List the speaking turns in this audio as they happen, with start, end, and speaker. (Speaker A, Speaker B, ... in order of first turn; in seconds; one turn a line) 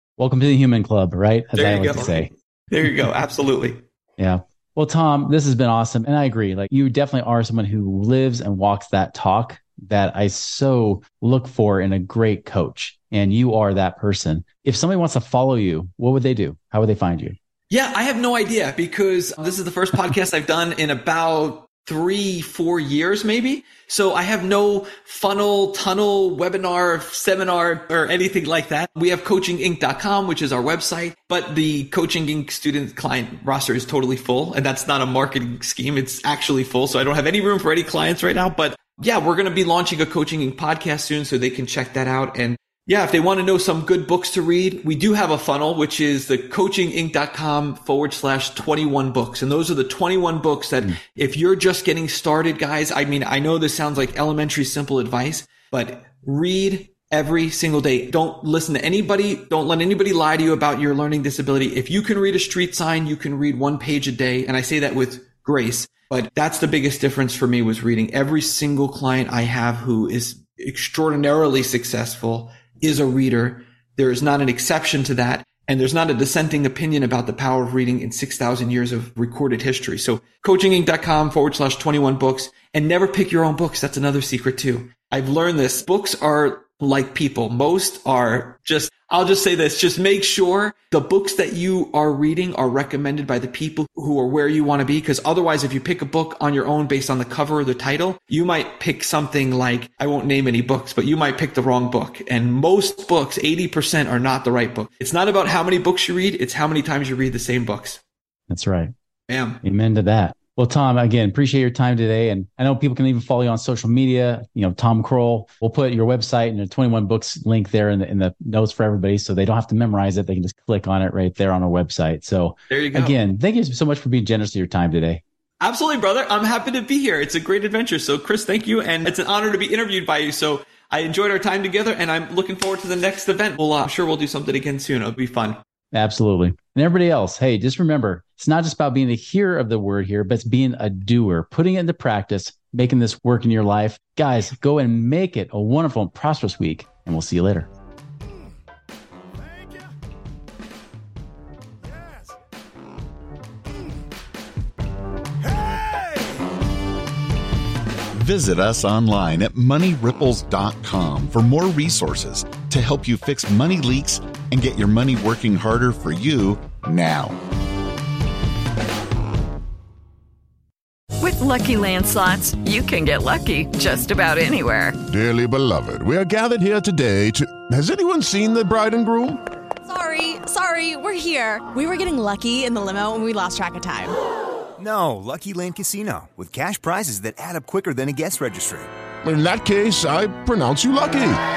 Speaker A: 0.2-2.3
Speaker B: 1.5-3.8
Speaker A: 4.2-17.4
Speaker B: 17.7-108.0
Speaker A: 108.5-108.9
Speaker B: 109.3-109.6
Speaker A: 109.6-125.2
Speaker B: 122.7-123.2
Speaker B: 125.6-135.6
Speaker A: 135.9-147.7
Speaker C: 158.1-167.3
Speaker D: 171.2-175.0
Speaker E: 175.1-179.4
Speaker F: 179.8-184.1
Speaker G: 184.8-188.9
Speaker E: 189.2-191.4